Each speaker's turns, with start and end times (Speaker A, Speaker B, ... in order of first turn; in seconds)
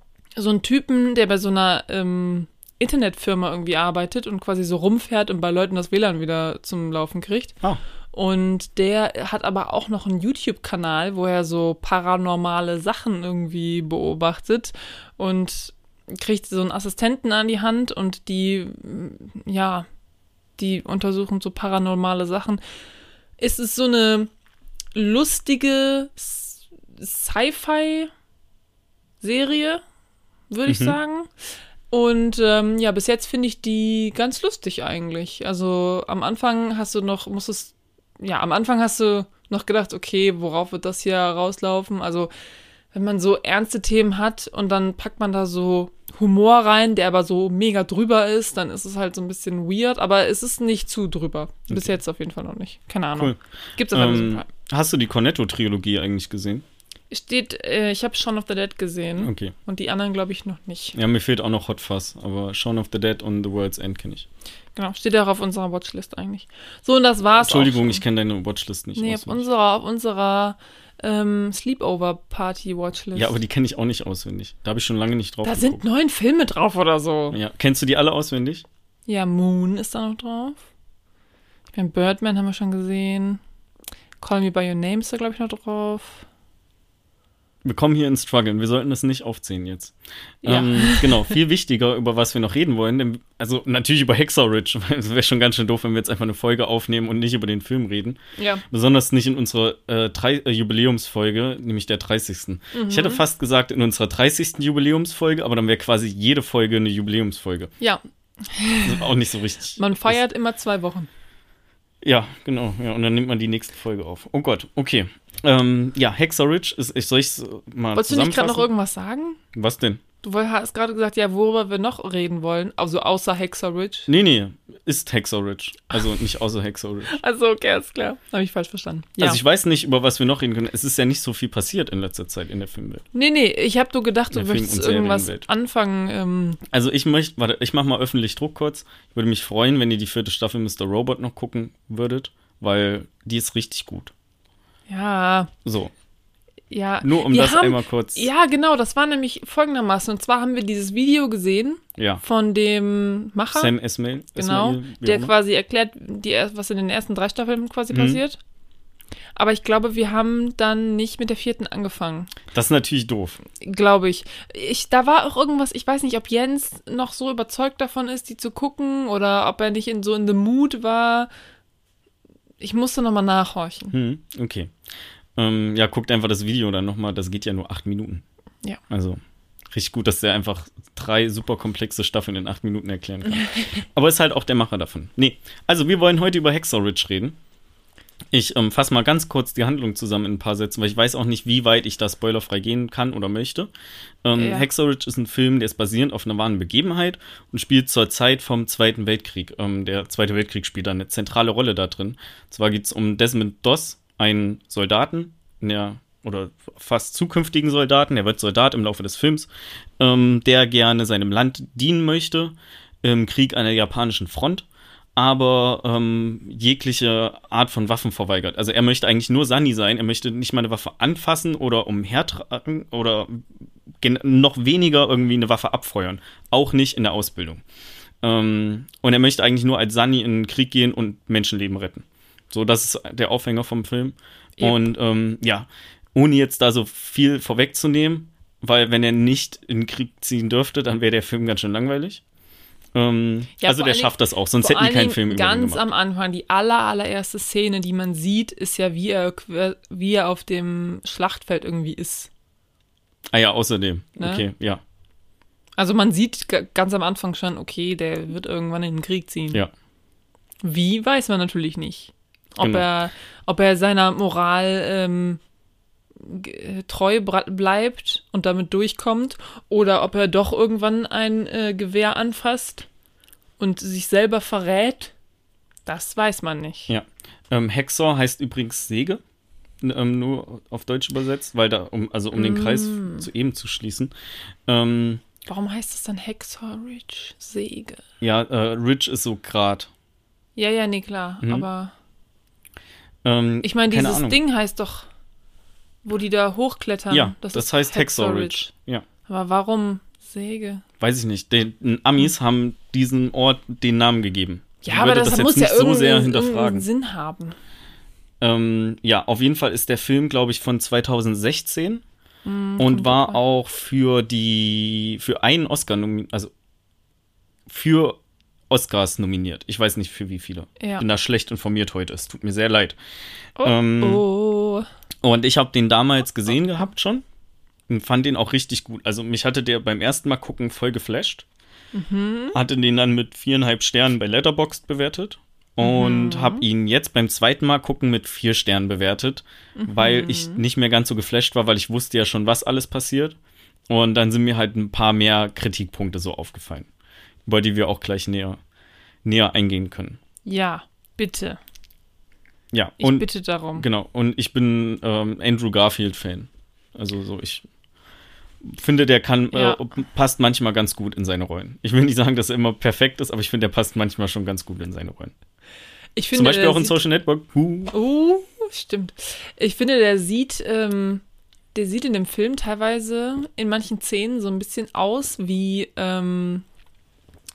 Speaker A: 0.4-7.5, 8.1-19.9, 20.6-22.6, 23.4-24.3, 24.9-28.1, 29.2-29.8, 30.5-31.3, 31.9-42.3, 42.9-54.5, 57.1-61.0, 64.8-68.0, 69.0-73.4, 75.4-77.4, 79.1-80.6, 81.7-83.4, 84.2-86.2, 90.4-91.3, 98.4-98.6, 102.7-103.2, 107.8-109.1, 109.8-111.1, 117.9-119.4, 120.2-124.1, 127.1-129.4, 133.1-136.6, 144.9-145.5, 146.7-153.7, 154.4-158.4, 159.3-162.3, 163.6-171.3, 172.6-173.9, 183.3-183.8, 194.4-194.7, 234.6-234.9, 243.6-252.3, 254.2-254.4, 255.8-259.6, 260.6-265.4, 266.2-272.9, 273.6-275.1, 275.9-276.9, 282.3-283.3, 285.4-288.0, 290.6-291.9, 293.6-295.1, 296.0-298.7, 299.2-300.8, 304.8-307.6, 312.4-313.4, 320.8-321.1, 323.6-324.9, 331.9-332.6, 335.8-336.6, 339.8-340.6, 350.4-351.6, 353.0-353.9, 359.5-359.8, 366.1-367.0, 367.9-371.2, 371.7-376.6
Speaker B: 30.7-30.9, 51.7-52.0, 53.9-56.6, 59.2-59.5, 60.9-64.3, 67.4-69.4, 73.1-75.8, 77.3-78.6, 87.6-98.2, 98.7-107.7, 108.8-110.2, 112.0-118.7, 119.5-120.0, 124.1-127.2, 129.2-133.0, 134.3-135.5, 136.7-144.1, 145.6-145.9, 147.0-148.2, 152.0-152.2, 153.5-155.3, 157.9-158.2, 162.5-163.4, 173.9-174.7, 175.3-178.2, 178.9-179.2, 179.7-187.4, 188.3-193.7, 194.2-223.5, 224.0-227.6, 228.2-242.2, 242.9-245.8, 253.3-254.8, 262.6-262.9, 276.9-279.2, 279.8-284.1, 284.7-285.2, 288.2-289.9, 293.2-294.4, 297.1-299.1, 301.0-306.9, 308.4-312.0, 312.8-316.5, 317.7-318.2, 318.7-323.0, 323.6-324.2, 325.2-327.2, 327.9-331.4, 332.5-343.4, 343.9-346.9, 347.4-348.6, 349.2-350.2, 352.7-357.6, 358.6-365.3, 366.3-367.9